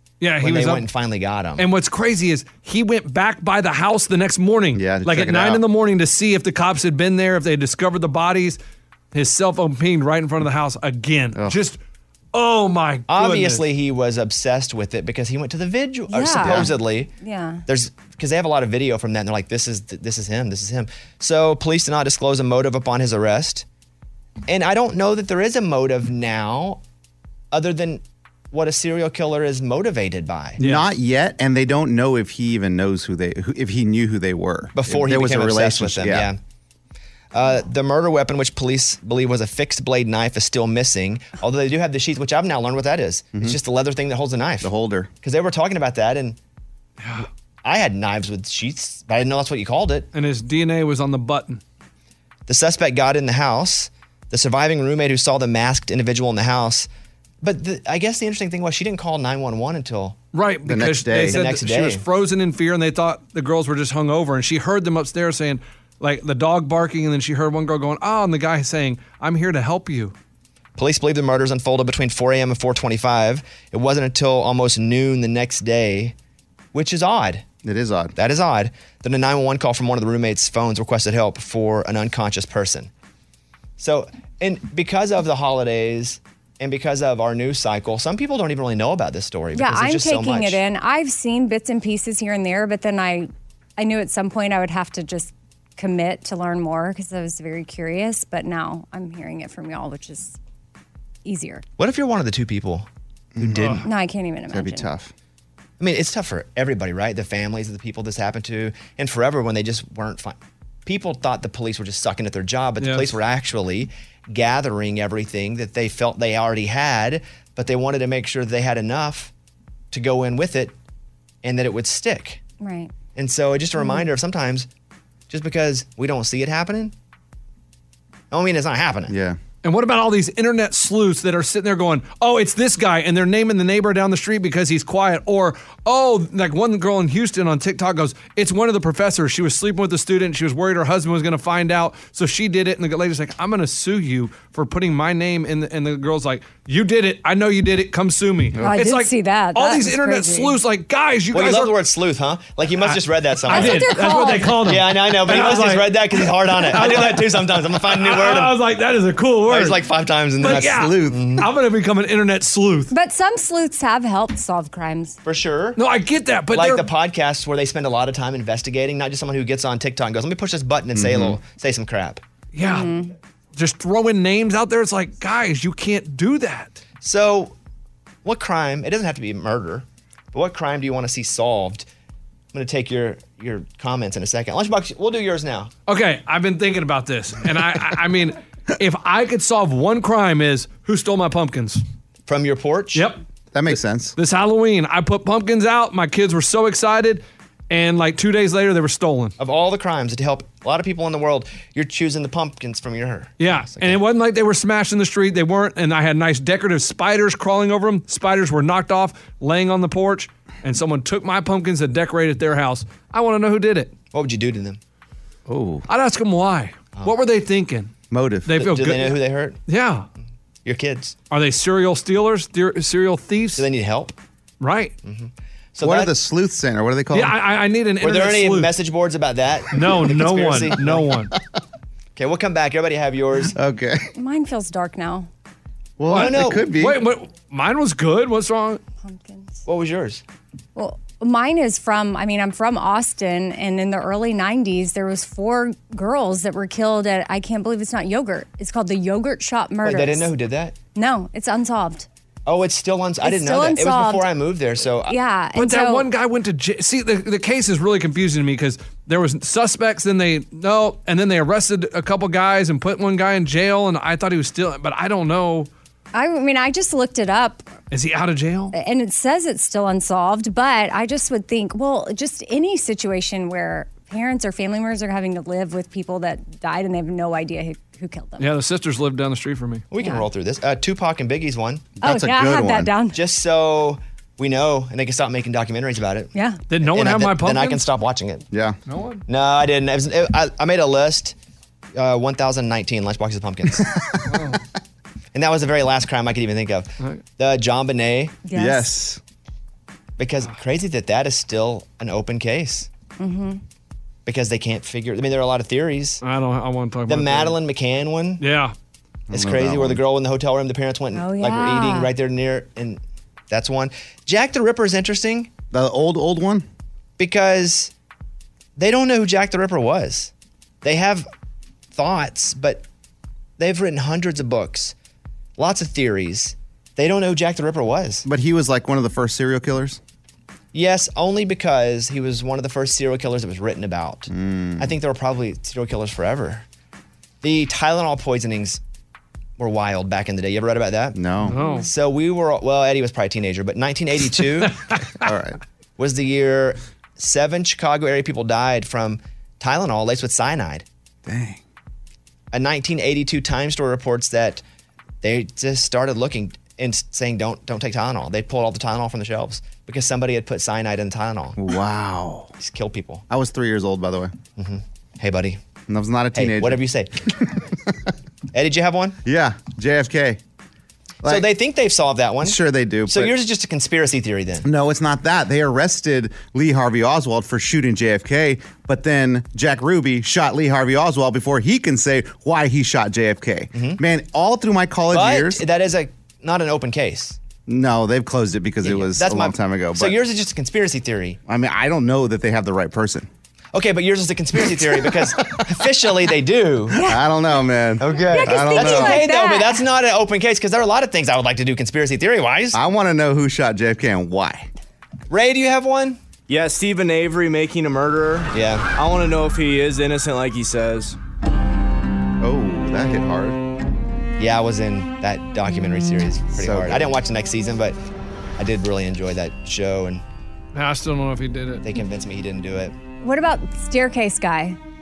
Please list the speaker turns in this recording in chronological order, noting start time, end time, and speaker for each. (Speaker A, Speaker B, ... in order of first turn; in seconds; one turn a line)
Speaker A: 0.2-0.8
Speaker B: 0.4-1.6
Speaker A: 1.6-8.6
Speaker C: 4.7-5.6
Speaker A: 9.1-11.8
Speaker A: 12.3-13.6
Speaker B: 13.1-17.1
Speaker D: 16.1-17.6
Speaker C: 16.4-16.7
Speaker B: 17.6-23.6
Speaker B: 24.5-26.8
Speaker B: 27.5-30.6
Speaker A: 30.6-30.8
Speaker C: 30.6-36.3
Speaker B: 34.7-36.4
Speaker B: 37.3-44.7
Speaker C: 44.6-45.1
Speaker B: 45.2-46.4
Speaker A: 47.0-47.3
Speaker B: 47.6-50.1
Speaker A: 50.1-51.6
Speaker B: 52.5-56.9
Speaker B: 57.4-60.2
Speaker A: 60.3-70.1
Speaker C: 60.6-61.4
Speaker B: 61.3-62.0
Speaker B: 70.8-76.1
Speaker B: 76.7-77.4
Speaker C: 77.6-78.1
Speaker B: 78.2-82.9
Speaker B: 83.8-90.6
Speaker D: 89.5-100.4
Speaker D: 101.2-101.6
Speaker B: 101.8-102.9
Speaker C: 103.3-103.8
Speaker B: 103.4-103.8
Speaker A: 103.6-103.8
Speaker D: 103.8-104.9
Speaker C: 104.5-105.1
Speaker B: 105.8-119.3
Speaker A: 112.8-113.1
Speaker B: 119.9-120.7
Speaker B: 121.4-122.4
Speaker D: 122.6-122.9
Speaker B: 123.2-124.7
Speaker D: 123.8-124.1
Speaker B: 125.3-126.9
Speaker B: 128.3-129.1
Speaker C: 129.1-129.4
Speaker A: 129.6-151.7
Speaker D: 148.6-150.6
Speaker B: 151.3-153.9
Speaker A: 152.8-159.8
Speaker D: 153.5-154.6
Speaker B: 154.6-158.5
Speaker B: 159.5-161.4
Speaker A: 160.4-162.9
Speaker C: 160.5-161.3
Speaker D: 162.9-165.2
Speaker B: 165.2-165.8
Speaker A: 165.8-166.9
Speaker B: 166.5-172.2
Speaker C: 170.9-171.4
Speaker A: 172.5-172.9
Speaker D: 172.6-173.1
Speaker A: 173.5-176.8
Speaker B: 177.0-177.5
Speaker B: 178.2-181.9
Speaker B: 182.5-185.7
Speaker A: 185.9-191.8
Speaker B: 192.3-193.1
Speaker A: 192.9-193.2
Speaker C: 193.5-194.2
Speaker A: 194.2-199.3
Speaker B: 199.4-204.0
Speaker A: 203.4-213.9
Speaker B: 214.1-214.8
Speaker C: 215.5-215.8
Speaker A: 215.9-217.9
Speaker C: 218.1-218.6
Speaker A: 218.4-220.1
Speaker B: 218.6-219.6
Speaker B: 220.6-221.2
Speaker A: 221.3-223.7
Speaker B: 223.6-224.1
Speaker A: 224.6-224.9
Speaker B: 225.0-226.1
Speaker C: 225.8-227.3
Speaker A: 227.1-228.7
Speaker B: 228.0-231.1
Speaker A: 229.7-231.3
Speaker B: 232.2-233.5
Speaker C: 233.5-234.1
Speaker D: 234.1-235.3
Speaker C: 236.0-237.0
Speaker A: 236.1-238.8
Speaker B: 236.1-236.7
Speaker D: 239.0-239.6
Speaker B: 239.6-240.2
Speaker D: 240.8-250.3
Speaker B: 249.8-250.8
Speaker D: 250.9-252.1
Speaker B: 252.4-255.2
Speaker D: 253.2-254.3
Speaker D: 255.1-256.1
Speaker A: 255.5-265.7
Speaker D: 266.1-267.7
Speaker A: 267.9-268.7
Speaker D: 268.7-278.5
Speaker A: 278.4-279.8
Speaker B: 279.9-281.9
Speaker D: 280.0-280.3
Speaker C: 282.0-282.9
Speaker D: 282.0-283.2
Speaker B: 283.1-286.3
Speaker D: 286.3-286.6
Speaker A: 286.7-287.8
Speaker B: 286.9-288.4
Speaker C: 288.5-288.8
Speaker A: 288.9-289.2
Speaker B: 289.3-291.3
Speaker B: 291.9-293.9
Speaker C: 293.7-294.6
Speaker A: 294.3-294.6
Speaker B: 295.3-298.4
Speaker D: 298.4-298.9
Speaker C: 298.5-299.2
Speaker B: 300.2-302.9
Speaker D: 303.2-303.6
Speaker B: 304.2-306.2
Speaker A: 306.2-307.6
Speaker B: 307.1-308.4
Speaker A: 308.4-308.7
Speaker C: 309.3-310.0
Speaker B: 309.3-315.5
Speaker D: 311.1-312.1
Speaker C: 315.7-316.6
Speaker B: 317.2-317.9
Speaker B: 318.8-320.3
Speaker B: 320.8-321.3
Speaker B: 321.9-322.8
Speaker B: 323.6-324.9
Speaker B: 325.6-328.2
Speaker C: 328.2-330.0
Speaker B: 330.7-336.6
Speaker C: 334.3-334.9
Speaker B: 337.4-338.8
Speaker B: 339.6-341.2
Speaker C: 341.1-341.6
Speaker A: 341.4-341.9
Speaker B: 341.8-344.7
Speaker C: 345.2-345.6
Speaker B: 346.0-350.8
Speaker C: 351.2-351.6
Speaker B: 352.5-354.6
Speaker B: 355.2-361.6
Speaker C: 361.6-362.5
Speaker B: 362.6-363.2
Speaker C: 363.3-364.3
Speaker B: 364.6-365.6
Speaker C: 365.9-368.1
Speaker B: 366.3-367.1
Speaker B: 368.5-369.2
Speaker C: 369.2-370.4
Speaker B: 371.2-374.6
Speaker C: 372.4-373.3
Speaker C: 374.6-385.6
Speaker B: 383.7-384.0
Speaker B: 385.1-387.4
Speaker C: 387.6-390.2
Speaker B: 388.8-391.4
Speaker C: 391.4-393.3
Speaker B: 393.7-397.0
Speaker C: 394.8-395.6
Speaker D: 396.9-397.2
Speaker C: 396.9-399.2
Speaker B: 398.0-402.8
Speaker D: 398.3-399.8
Speaker C: 402.7-404.7
Speaker B: 405.3-406.2
Speaker E: 406.5-411.2
Speaker B: 408.5-408.9
Speaker C: 412.4-413.6
Speaker B: 414.4-418.0
Speaker C: 416.6-417.1
Speaker B: 418.6-420.2
Speaker A: 420.7-421.8
Speaker B: 421.8-422.9
Speaker D: 423.2-424.8